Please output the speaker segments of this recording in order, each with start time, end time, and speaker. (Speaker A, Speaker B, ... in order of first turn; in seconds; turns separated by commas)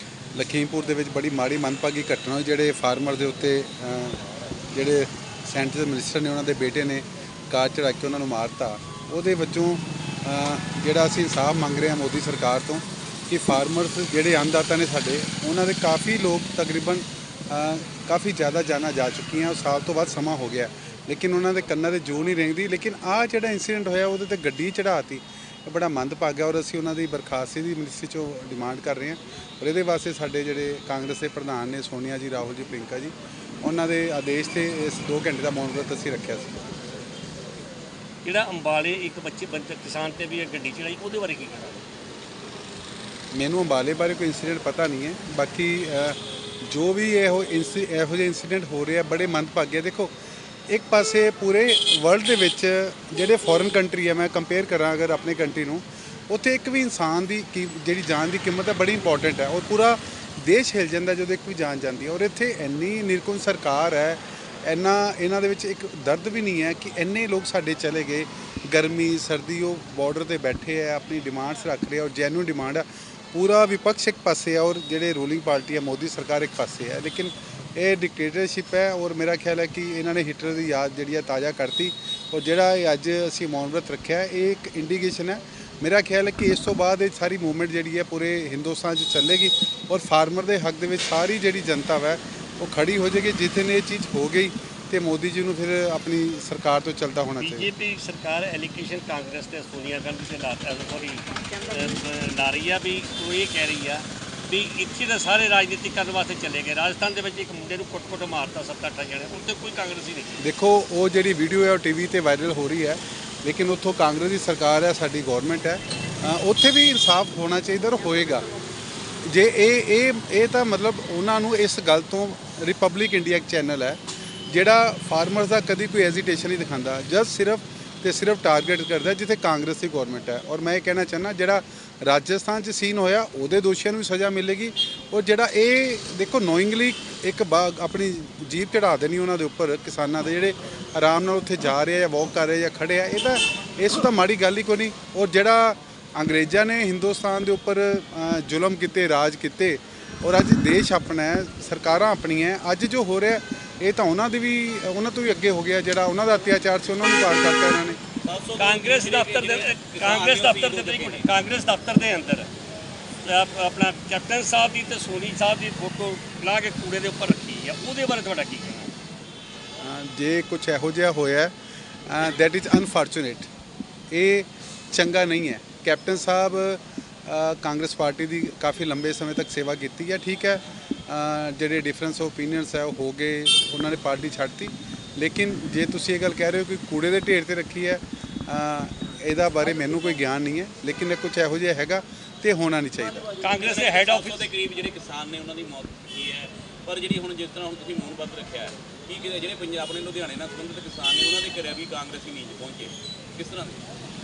Speaker A: 0.3-36.6, Speaker B: 38.2-41.8, Speaker A: 43.3-50.1, Speaker A: 50.7-97.7, Speaker B: 97.4-110.4, Speaker A: 110.4-118.5, Speaker A: 119.2-158.0, Speaker C: 158.2-161.3, Speaker B: 158.6-162.5, Speaker B: 163.2-168.9, Speaker A: 169.8-171.5, Speaker A: 172.1-173.5, Speaker A: 174.1-193.3, Speaker B: 193.4-194.5, Speaker C: 193.5-203.8